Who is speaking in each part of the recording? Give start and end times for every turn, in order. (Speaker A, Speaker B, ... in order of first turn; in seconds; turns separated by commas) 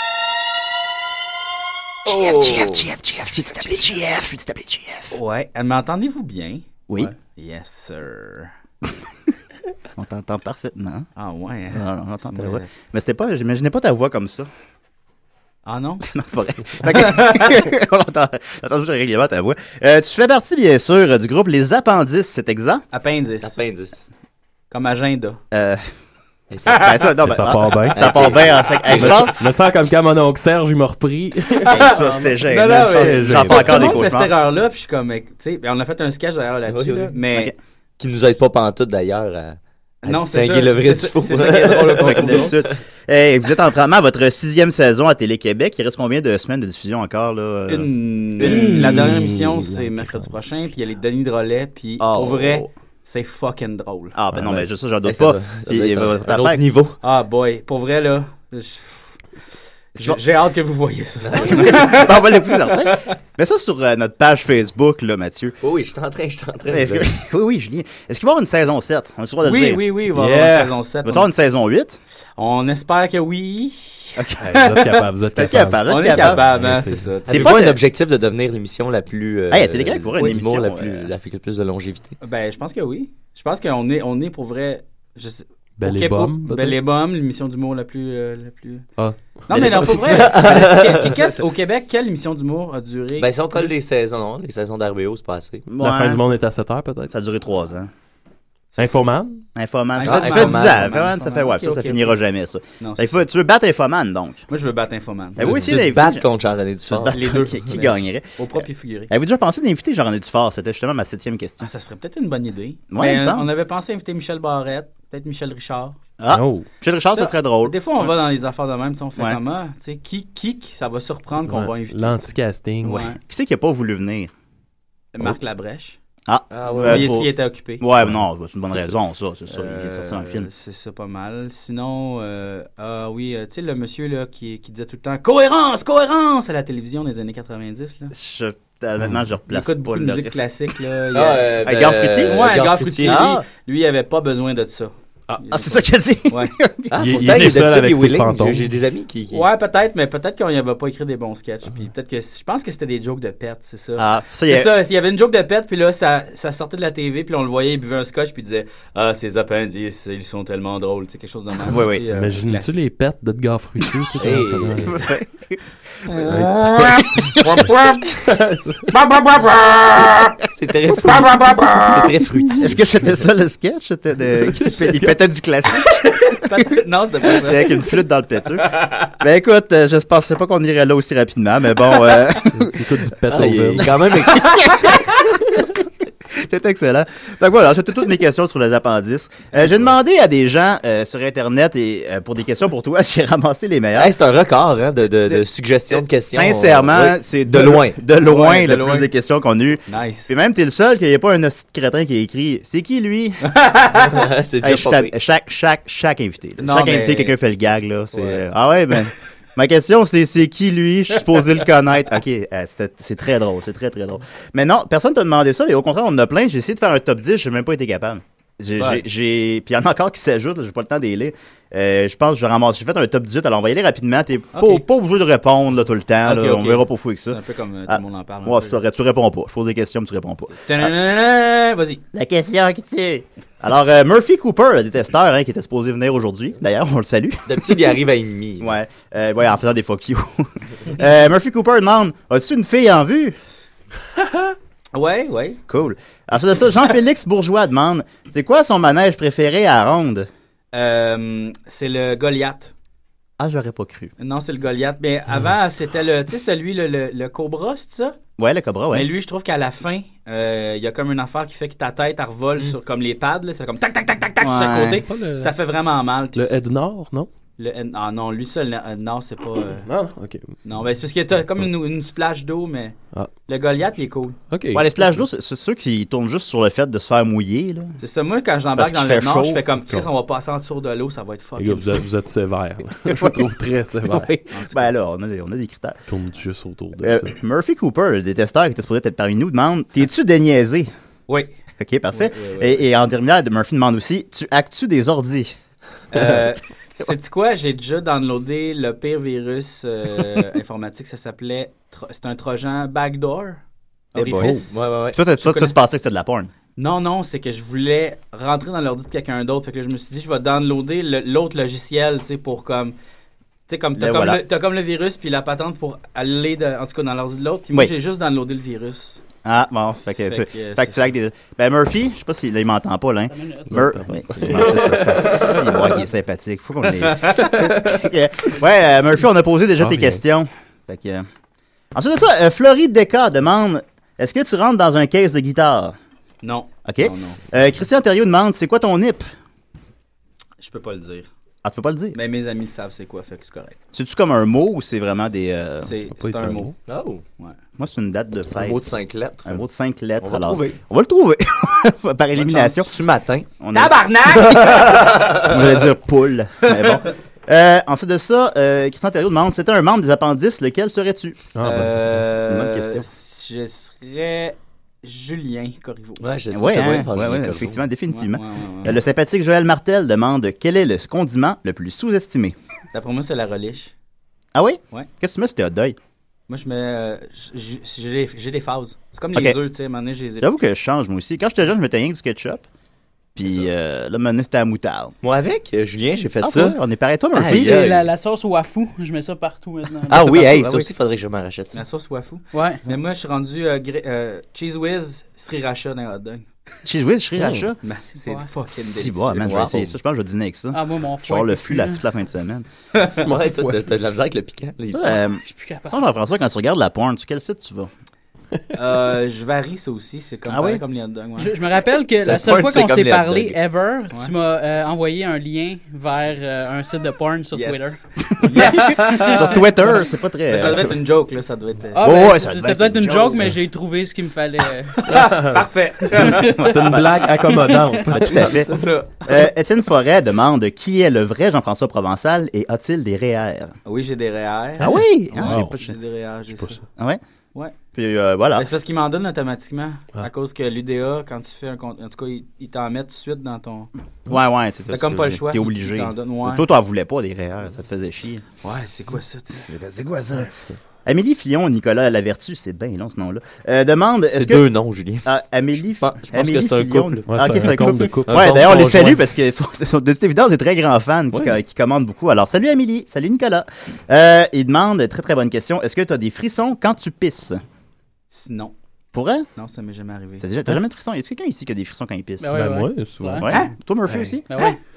Speaker A: 2.1-2.9, Speaker B: 2.3-5.2, Speaker C: 5.1-8.5, Speaker B: 10.0-11.1, Speaker C: 11.2-12.7, Speaker B: 11.7-14.5, Speaker C: 15.7-16.1, Speaker B: 16.1-22.9, Speaker C: 16.9-17.6, Speaker C: 22.9-23.6, Speaker A: 23.4-24.1, Speaker C: 24.7-25.4, Speaker B: 25.5-25.8, Speaker A: 26.5-26.9, Speaker B: 26.7-29.4, Speaker C: 26.7-27.1, Speaker D: 27.2-28.3, Speaker A: 27.9-29.3, Speaker D: 28.9-32.1, Speaker C: 31.6-37.5, Speaker B: 31.7-34.3, Speaker D: 32.6-34.0, Speaker A: 36.7-37.2, Speaker A: 38.0-42.7, Speaker C: 40.0-42.6, Speaker B: 42.0-49.0, Speaker C: 47.7-54.2, Speaker D: 48.4-50.3, Speaker B: 52.0-52.7, Speaker B: 54.1-56.6, Speaker A: 54.4-57.0, Speaker C: 57.0-59.2, Speaker C: 59.9-63.0, Speaker A: 61.2-61.8, Speaker B: 61.4-65.6, Speaker A: 65.6-67.1, Speaker B: 66.7-69.8, Speaker C: 69.4-71.3, Speaker D: 70.1-70.8, Speaker B: 71.0-72.0, Speaker C: 72.4-75.0, Speaker B: 74.2-74.8, Speaker D: 74.5-77.1, Speaker B: 75.3-76.5, Speaker C: 75.9-77.6, Speaker A: 77.3-82.2, Speaker B: 77.3-77.8, Speaker B: 79.5-81.1, Speaker C: 82.2-88.9, Speaker D: 85.8-86.8, Speaker D: 89.0-89.7, Speaker C: 89.5-93.8, Speaker B: 89.5-90.5, Speaker A: 89.8-91.1, Speaker A: 93.2-95.7, Speaker B: 95.7-96.2, Speaker D: 95.8-97.1, Speaker B: 97.1-97.9, Speaker D: 98.8-99.4, Speaker B: 99.5-104.4, Speaker C: 100.0-102.2, Speaker A: 100.0-100.9, Speaker C: 102.8-103.2, Speaker C: 104.5-105.6, Speaker B: 105.4-106.2, Speaker A: 105.4-107.2, Speaker B: 106.9-111.7, Speaker C: 107.1-109.1, Speaker C: 111.6-116.0, Speaker B: 112.9-113.5, Speaker B: 116.2-118.1, Speaker D: 116.3-116.7, Speaker C: 117.2-123.2, Speaker D: 121.5-123.0, Speaker B: 122.8-124.3, Speaker C: 125.1-126.0, Speaker B: 126.3-130.5, Speaker A: 126.5-127.2, Speaker C: 126.8-127.8, Speaker C: 129.5-138.1, Speaker B: 138.1-140.4, Speaker C: 139.5-141.6, Speaker A: 141.1-143.3, Speaker B: 141.6-142.5, Speaker C: 142.2-146.6, Speaker B: 143.0-143.4, Speaker B: 145.5-147.0, Speaker A: 146.9-149.5, Speaker D: 147.0-148.7, Speaker C: 149.3-162.7, Speaker B: 154.0-154.7, Speaker B: 161.7-162.1, Speaker D: 162.1-165.1, Speaker A: 164.2-165.0, Speaker B: 164.9-165.6, Speaker B: 166.1-167.6, Speaker D: 166.2-168.9, Speaker A: 170.5-172.8, Speaker B: 171.1-171.5, Speaker B: 172.6-176.0, Speaker C: 175.9-177.9, Speaker B: 177.4-182.8, Speaker D: 182.6-184.0, Speaker A: 183.3-184.9, Speaker B: 186.3-194.1, Speaker A: 194.0-198.0, Speaker B: 195.3-203.4, Speaker C: 198.2-199.1, Speaker C: 199.9-200.3, Speaker C: 203.5-204.2, Speaker A: 204.1-205.1, Speaker B: 204.6-230.9, Speaker C: 206.6-207.3, Speaker C: 224.5-224.8, Speaker C: 226.2-228.8, Speaker C: 230.7-232.0, Speaker B: 232.1-237.7, Speaker A: 237.5-238.8, Speaker B: 238.6-243.4, Speaker C: 244.9-245.6, Speaker B: 245.7-250.3, Speaker C: 250.7-252.7, Speaker B: 253.4-254.1, Speaker C: 254.2-258.2, Speaker B: 258.4-259.1, Speaker C: 258.9-266.5, Speaker B: 264.4-265.0, Speaker D: 265.1-265.5, Speaker D: 266.4-267.3, Speaker C: 267.6-269.9, Speaker D: 269.9-270.6, Speaker C: 270.6-274.4, Speaker D: 274.5-275.1, Speaker B: 274.7-277.9, Speaker C: 278.0-282.1, Speaker B: 278.7-279.6, Speaker D: 281.6-284.3, Speaker B: 283.1-283.5, Speaker B: 284.1-286.0, Speaker C: 284.5-284.9, Speaker D: 286.1-287.3, Speaker B: 287.0-290.9, Speaker C: 291.3-291.5, Speaker B: 291.8-295.6, Speaker C: 292.1-292.9, Speaker C: 296.1-303.6, Speaker C: 304.1-304.8, Speaker B: 304.1-306.5, Speaker A: 304.4-305.2, Speaker C: 305.4-305.8, Speaker C: 306.8-312.9, Speaker C: 313.7-319.2, Speaker B: 314.0-314.4, Speaker B: 319.4-331.2, Speaker C: 320.2-321.1, Speaker E: 323.3-323.8, Speaker D: 323.7-325.7, Speaker C: 327.0-327.8, Speaker D: 329.8-330.2, Speaker B: 331.9-336.0, Speaker C: 336.4-337.4, Speaker B: 336.9-339.3, Speaker C: 340.6-341.3, Speaker B: 341.6-342.2, Speaker C: 342.1-343.8, Speaker B: 343.9-345.9, Speaker C: 345.8-346.7, Speaker D: 346.1-346.8, Speaker A: 346.9-347.2, Speaker B: 347.8-348.8, Speaker A: 348.6-349.6, Speaker B: 349.4-352.9, Speaker A: 350.2-350.8, Speaker A: 352.4-353.5, Speaker B: 353.6-354.0, Speaker C: 353.7-355.2, Speaker A: 354.4-355.5, Speaker B: 354.6-361.4, Speaker C: 356.7-357.1, Speaker D: 361.6-362.3, Speaker C: 361.6-366.3, Speaker B: 362.5-363.0, Speaker A: 366.2-367.8, Speaker B: 366.5-372.6, Speaker C: 368.1-369.0, Speaker C: 372.9-373.9, Speaker B: 374.6-376.0, Speaker C: 376.5-380.5, Speaker B: 380.4-382.6, Speaker B: 383.4-385.1, Speaker A: 385.2-386.8, Speaker B: 386.4-387.8, Speaker A: 387.3-388.1, Speaker E: 387.5-390.2, Speaker A: 390.1-391.8, Speaker B: 390.1-390.9, Speaker C: 391.7-396.4, Speaker E: 392.5-392.8, Speaker B: 396.9-397.8, Speaker C: 397.8-399.7, Speaker E: 398.0-398.5, Speaker B: 398.7-402.6, Speaker A: 399.4-399.9, Speaker E: 400.7-402.0, Speaker C: 402.9-403.3, Speaker D: 403.3-403.8, Speaker A: 403.3-405.2, Speaker B: 404.9-407.9, Speaker E: 405.4-405.9, Speaker C: 408.7-411.6, Speaker B: 410.5-410.8, Speaker E: 411.4-419.7, Speaker A: 412.2-413.6, Speaker C: 417.5-419.8, Speaker B: 418.4-420.9, Speaker C: 420.5-422.1, Speaker E: 421.9-425.0, Speaker B: 422.0-423.5, Speaker C: 425.0-427.0, Speaker D: 425.2-425.5, Speaker D: 426.2-428.5, Speaker E: 426.3-426.9, Speaker B: 426.6-427.1, Speaker E: 427.5-428.1, Speaker B: 428.1-433.8, Speaker C: 428.4-429.4, Speaker C: 433.9-436.8, Speaker D: 434.8-435.8, Speaker B: 434.8-435.9, Speaker D: 436.5-436.8, Speaker B: 437.9-438.7, Speaker C: 438.6-443.9, Speaker B: 444.3-448.4, Speaker C: 444.9-446.6, Speaker C: 448.6-449.7, Speaker B: 449.7-454.7, Speaker A: 454.3-455.3, Speaker B: 455.2-467.6, Speaker A: 456.0-457.3, Speaker D: 457.3-458.5, Speaker A: 458.3-459.2, Speaker C: 468.3-468.7, Speaker B: 469.1-469.5, Speaker C: 469.6-470.5, Speaker B: 470.4-472.6, Speaker E: 472.4-473.7, Speaker D: 472.5-473.4, Speaker B: 473.4-474.4, Speaker E: 474.5-474.8